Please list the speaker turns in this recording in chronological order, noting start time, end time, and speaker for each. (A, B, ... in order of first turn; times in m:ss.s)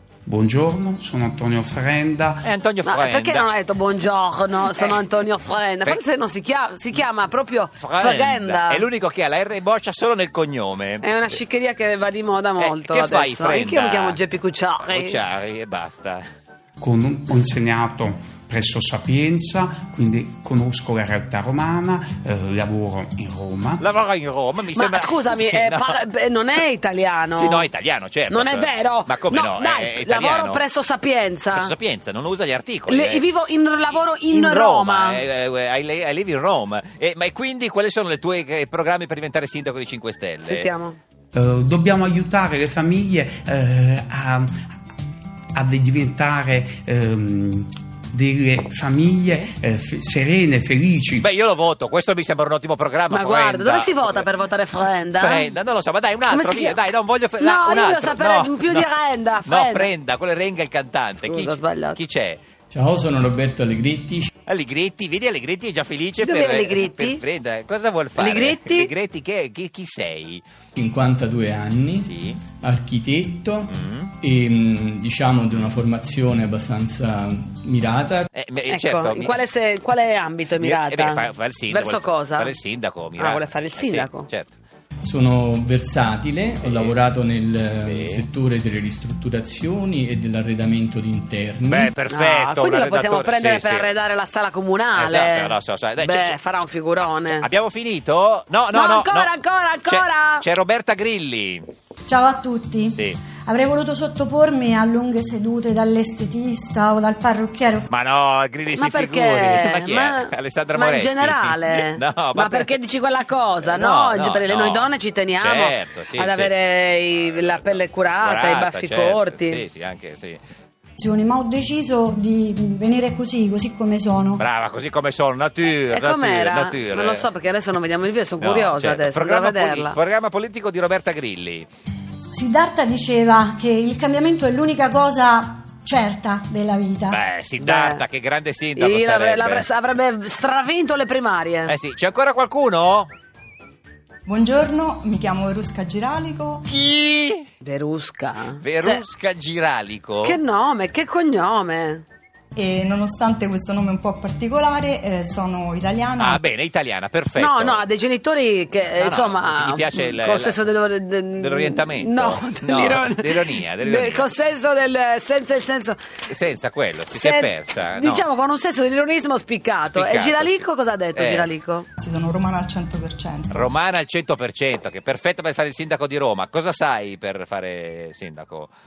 0:00.2-0:02.5 A
0:02.4-0:03.5 B
0:02.8-0:08.9 C
0:04.7-0:05.1 B
0:07.8-0:11.0 B
0:11.0-0:15.2 C
0:12.6-0:14.2 B
0:14.9-0:16.2 B
0:16.8-0:23.9 A
0:23.8-0:26.0 B
0:24.7-0:27.7 C
0:27.3-0:30.6 B
0:28.3-0:31.7 C
0:31.5-0:33.2 B
0:32.9-0:35.2 C
0:33.9-0:40.7 B
0:40.4-0:41.0 C
0:41.3-0:44.5 A
0:45.6-0:51.2 A
0:51.2-0:54.3 B
0:53.1-0:55.5 C
0:55.2-0:58.9 B
0:56.3-0:56.8 C
0:57.4-0:59.9 C
0:59.4-1:02.4 B
1:01.2-1:02.0 C
1:02.7-1:04.3 D
1:04.5-1:10.4 B
1:06.2-1:07.2 C
1:08.2-1:08.9 C
1:10.8-1:12.1 D
1:12.0-1:12.4 B
1:12.6-1:18.3 D
1:13.7-1:14.1 B
1:18.4-1:19.4 B
1:18.6-1:22.6 C
1:20.6-1:24.6 B
1:23.2-1:24.3 C
1:25.0-1:32.0 D
1:26.6-1:27.0 B
1:27.8-1:28.3 B
1:31.7-1:34.0 B
1:32.0-1:37.4 C
1:35.0-1:36.4 B
1:37.0-1:39.3 B
1:38.7-1:40.4 C
1:39.8-1:41.7 B
1:42.1-1:47.9 E
1:42.9-1:43.2 B
1:47.9-1:52.8 B
1:48.7-1:59.6 C
1:53.6-1:56.5 B
1:57.1-2:00.4 B
2:01.0-2:04.4 E
2:04.4-2:07.3 B
2:05.9-2:10.0 C
2:08.4-2:11.7 B
2:12.3-2:17.2 E
2:17.1-2:19.6 B
2:17.6-2:18.0 C
2:18.8-2:21.7 C
2:21.7-2:23.1 B
2:24.2-2:26.6 F
2:26.7-2:27.5 B
2:27.6-2:29.0 C
2:28.6-2:30.4 B
2:30.2-2:32.0 C
2:32.5-2:36.4 F
2:36.2-2:37.8 B
2:37.4-2:46.0 C
2:39.0-2:40.7 B
2:41.4-2:44.3 B
2:46.3-2:48.2 B
2:47.1-2:51.8 C
2:49.9-2:51.5 B
2:52.0-2:53.7 F
2:53.5-2:58.7 B